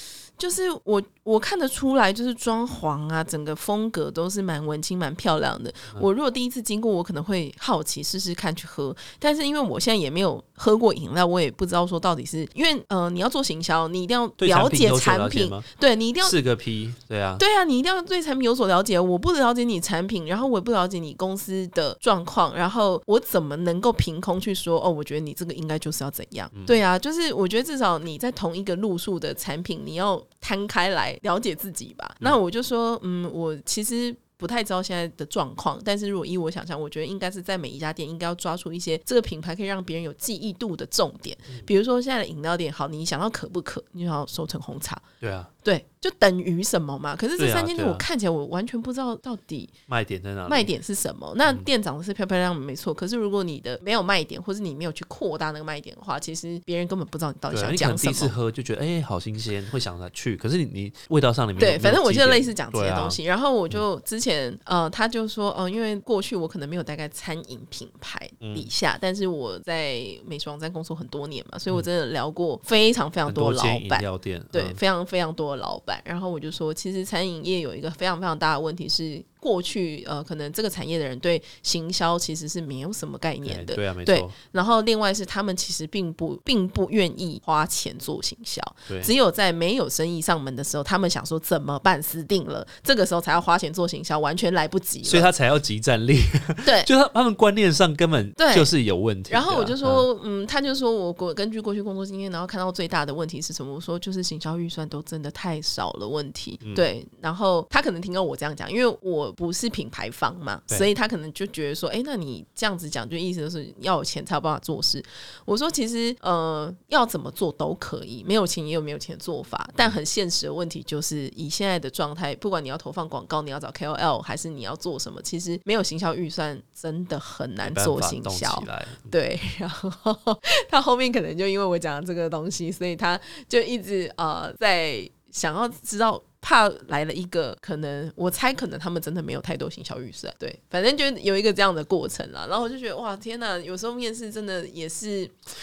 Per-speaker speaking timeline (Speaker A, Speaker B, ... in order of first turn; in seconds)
Speaker A: 0.4-16.4, 17.4-45.0, 45.6-49.7, 50.5-58.4, 61.6-95.3, 98.4-98.7, 99.3-145.3
Speaker B: 14.4-15.7, 16.2-17.4, 26.5-26.8, 45.2-45.5, 47.4-48.0, 49.9-50.7, 57.5-63.2, 68.4-68.7, 73.3-74.8, 83.5-84.3, 88.9-89.1, 95.0-100.1, 127.6-129.1